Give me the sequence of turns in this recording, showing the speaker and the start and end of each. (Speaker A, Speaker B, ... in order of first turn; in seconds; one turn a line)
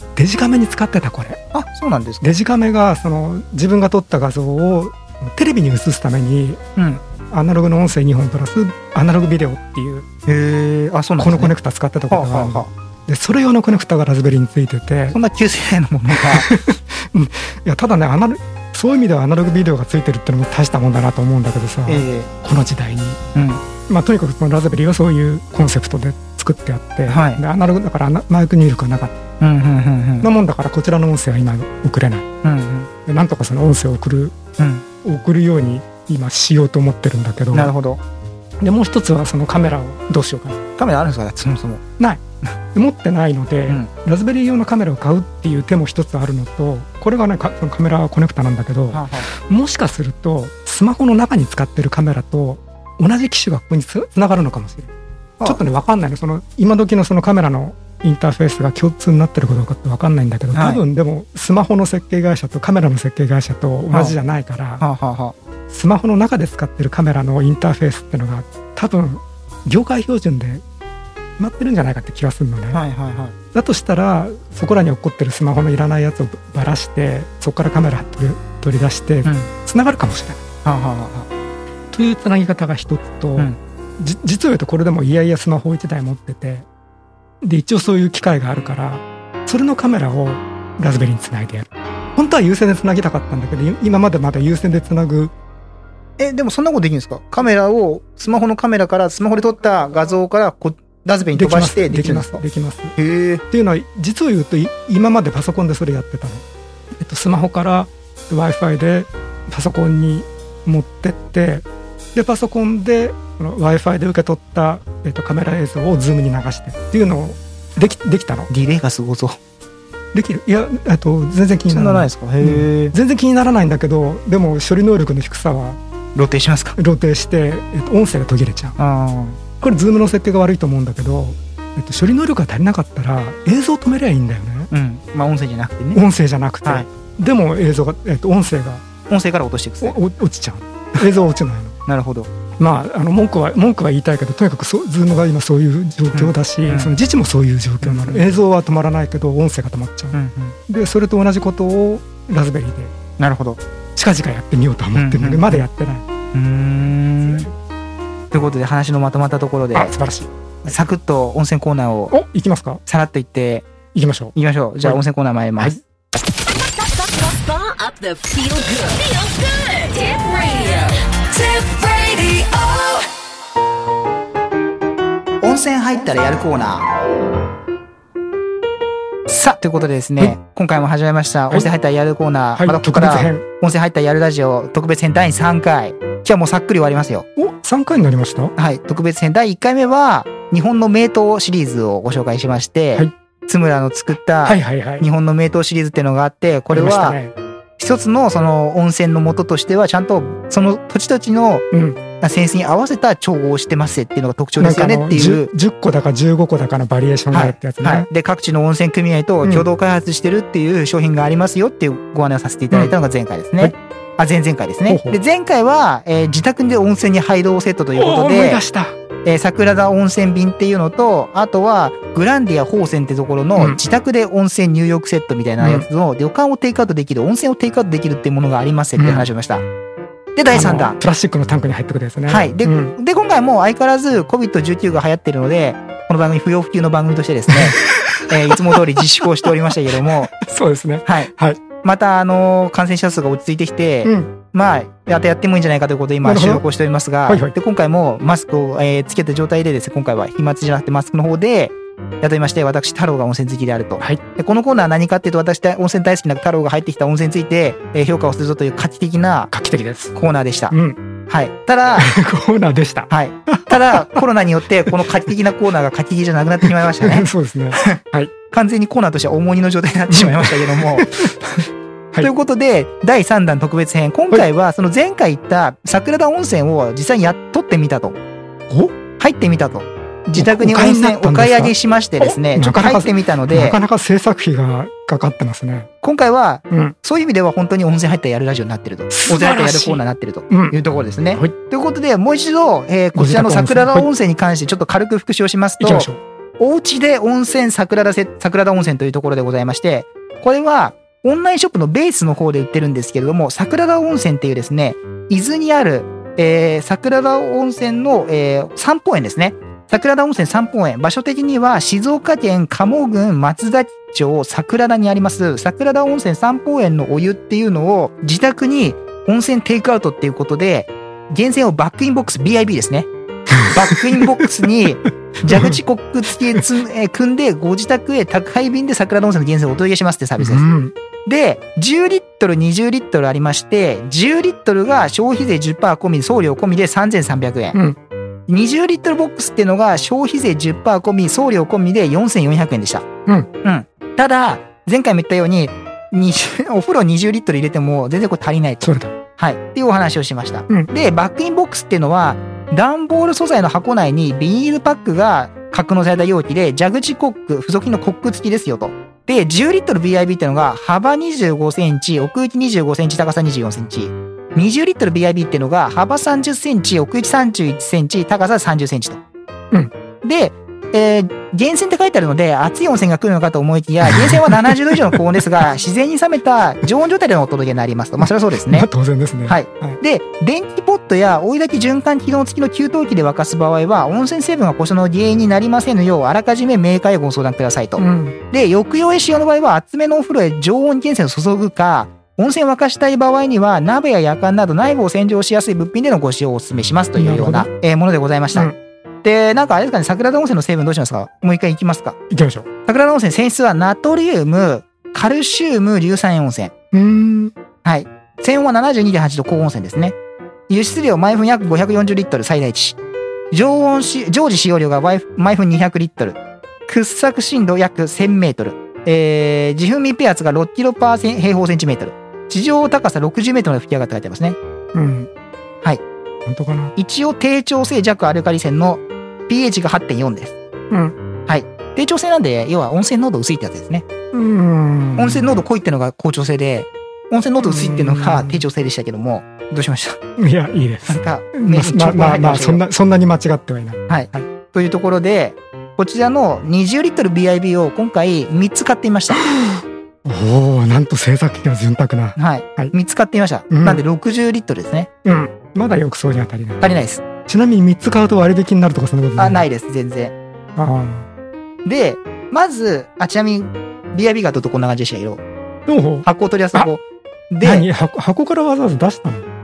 Speaker A: 0.1-1.4
Speaker B: 1.5-2.2
Speaker A: 2.2-6.6
Speaker B: 6.8-7.0
Speaker A: 7.3-10.1
Speaker B: 10.3-11.5
Speaker A: 11.2-15.2
Speaker B: 12.1-12.7
Speaker B: 15.1-16.5
Speaker A: 16.1-23.2
Speaker B: 21.9-22.3
Speaker B: 23.4-23.6
Speaker A: 23.9-29.1
Speaker B: 27.1-27.4
Speaker B: 29.4-30.3
Speaker A: 30.2-32.2
Speaker B: 32.4-32.9
Speaker A: 33.0-34.4
Speaker B: 34.6-34.8
Speaker A: 35.0-37.7
Speaker B: 37.5-38.0
Speaker A: 38.6-40.6
Speaker B: 40.8-41.8
Speaker A: 42.7-54.9
Speaker B: 48.9-49.3
Speaker A: 55.4-64.8
Speaker B: 60.5-60.8
Speaker B: 63.9-64.2
Speaker B: 64.8-65.3
Speaker A: 65.7-70.6
Speaker A: 71.4-72.8
Speaker B: 72.7-73.3
Speaker A: 73.5-80.4
Speaker B: 79.2-79.5
Speaker B: 80.6-81.3
Speaker A: 81.9-86.7
Speaker A: 87.4-95.3
Speaker B: 96.2-102.4
Speaker A: 101.3-102.9
Speaker B: 103.0-103.4
Speaker A: 103.5-118.5
Speaker B: 118.5-119.4
Speaker A: 120.1-125.8
Speaker B: 121.7-122.9
Speaker B: 126.2-126.8
Speaker A: 126.8-128.8
Speaker B: 128.8-129.4
Speaker A: 129.6-134.7
Speaker B: 134.7-136.0
Speaker A: 135.9-138.8
Speaker B: 139.1-140.0
Speaker A: 139.8-141.8
Speaker B: 141.9-142.3
Speaker A: 142.6-152.9
Speaker B: 146.1-146.9
Speaker B: 147.8-148.3
Speaker B: 150.1-150.5
Speaker B: 153.2-153.6
Speaker A: 153.9-156.0
Speaker B: 154.9-155.6
Speaker B: 156.3-157.5
Speaker B: 158.3-159.9
Speaker A: 159.7-160.8
Speaker B: 160.6-162.1
Speaker A: 162.1-162.8
Speaker B: 162.9-163.7
Speaker A: 163.9-165.0
Speaker B: 164.3-165.8
Speaker C: 166.6-173.1
Speaker B: 175.4-176.8
Speaker B: 179.3-187.2
Speaker A: 182.6-183.4
Speaker A: 187.4-188.5
Speaker B: 188.6-197.2
Speaker A: 194.4-195.1
Speaker A: 196.7-197.3
Speaker B: 197.8-201.6
Speaker A: 201.7-202.0
Speaker B: 202.2-205.5
Speaker A: 204.6-208.1
Speaker B: 207.3-218.6
Speaker A: 214.9-215.2
Speaker A: 217.9-218.9
Speaker B: 219.2-229.6
Speaker A: 225.6-225.9
Speaker A: 229.0-229.3
Speaker B: 230.3-231.0
Speaker A: 230.5-232.9
Speaker B: 232.3-240.3
Speaker A: 237.5-241.6
Speaker B: 241.8-259.5
Speaker A: 244.0-244.3
Speaker A: 246.2-246.6
Speaker A: 247.3-247.5
Speaker A: 259.5-260.1
Speaker B: 260.1-260.7
Speaker A: 260.7-261.0
Speaker B: 261.3-262.1
Speaker A: 262.0-264.2
Speaker B: 263.1-268.0
Speaker A: 266.6-268.3
Speaker B: 268.5-271.6
Speaker A: 270.1-271.4
Speaker B: 272.2-278.1
Speaker A: 278.7-278.9
Speaker B: 279.2-283.8
Speaker A: 280.4-285.9
Speaker B: 286.0-330.6
Speaker A: 286.7-286.9
Speaker A: 289.1-290.8
Speaker A: 293.1-294.1
Speaker A: 295.8-296.2
Speaker A: 323.5-324.5
Speaker A: 325.4-325.8
Speaker A: 330.4-330.9
Speaker B: 331.2-337.8
Speaker B: 338.5-343.1
Speaker B: 343.6-369.2
Speaker A: 348.8-349.1
Speaker B: 370.2-378.9
Speaker A: 374.1-375.2
Speaker A: 378.7-380.0
Speaker B: 379.5-398.7
Speaker A: 388.0-388.4
Speaker A: 397.1-397.7
Speaker B: 399.2-402.2
Speaker A: 402.3-402.7
Speaker B: 402.9-406.7
Speaker A: 406.9-407.5
Speaker B: 407.8-410.1
Speaker B: 410.7-413.0
Speaker B: 413.5-424.6
Speaker A: 424.9-425.3
Speaker A: 426.4-426.9
Speaker B: 426.9-430.6
Speaker A: 430.9-431.1
Speaker B: 431.5-434.1
Speaker A: 434.3-435.6
Speaker B: 435.1-440.2
Speaker A: 437.6-438.6
Speaker A: 440.4-444.5
Speaker B: 441.1-442.8
Speaker B: 444.1-449.4
Speaker A: 449.4-452.9
Speaker B: 452.4-455.1
Speaker A: 453.7-454.0
Speaker A: 455.2-456.9
Speaker B: 456.8-457.2
Speaker A: 457.4-459.6
Speaker B: 459.4-460.3
Speaker A: 460.8-461.3
Speaker B: 461.9-465.4
Speaker A: 465.9-466.9
Speaker B: 466.2-467.9
Speaker A: 467.6-469.5